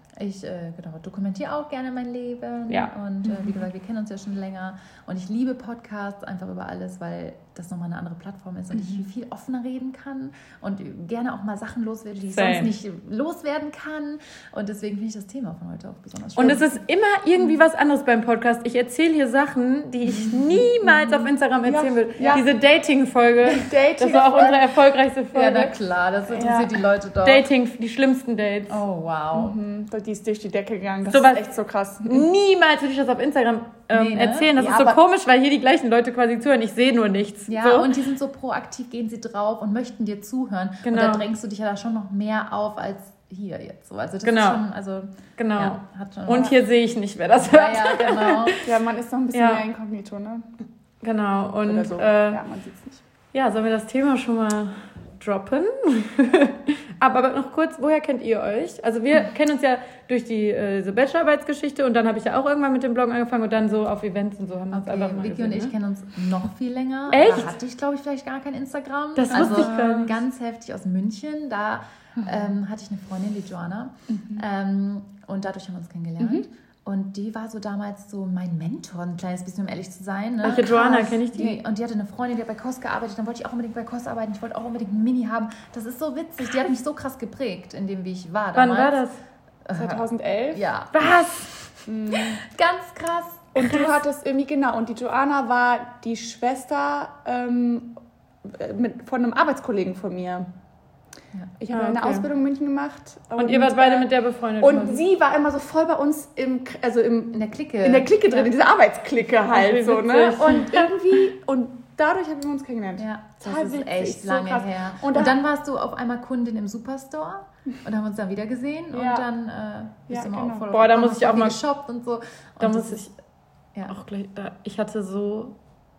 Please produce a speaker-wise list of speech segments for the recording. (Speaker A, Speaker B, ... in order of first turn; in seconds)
Speaker A: 0.2-16.8, 20.1-21.2, 25.3-27.5, 28.7-29.6, 33.9-34.5, 37.5-46.6, 47.4-48.5, 64.7-89.0, 89.7-93.5, 107.3-108.5, 113.0-123.0
Speaker B: 12.3-12.7, 16.4-25.7, 27.2-28.8, 31.1-31.5, 32.0-37.9, 40.8-41.2, 44.2-44.6, 45.4-48.6, 49.3-49.6, 51.0-52.4, 53.3-65.7, 67.1-67.5, 69.2-70.1, 80.4-81.6, 88.5-89.1, 90.9-91.5, 93.6-93.9, 101.7-102.2, 103.4-105.0, 109.5-110.9, 120.7-121.6, 122.6-123.1, 123.9-125.5
Speaker C: 21.6-22.4, 23.6-24.7, 26.4-26.6, 29.3-32.3, 34.5-35.0, 48.6-50.5, 51.6-53.0, 69.3-69.9, 89.7-90.6, 91.9-92.4, 93.5-100.5, 101.6-115.4, 118.9-119.2, 120.1-120.7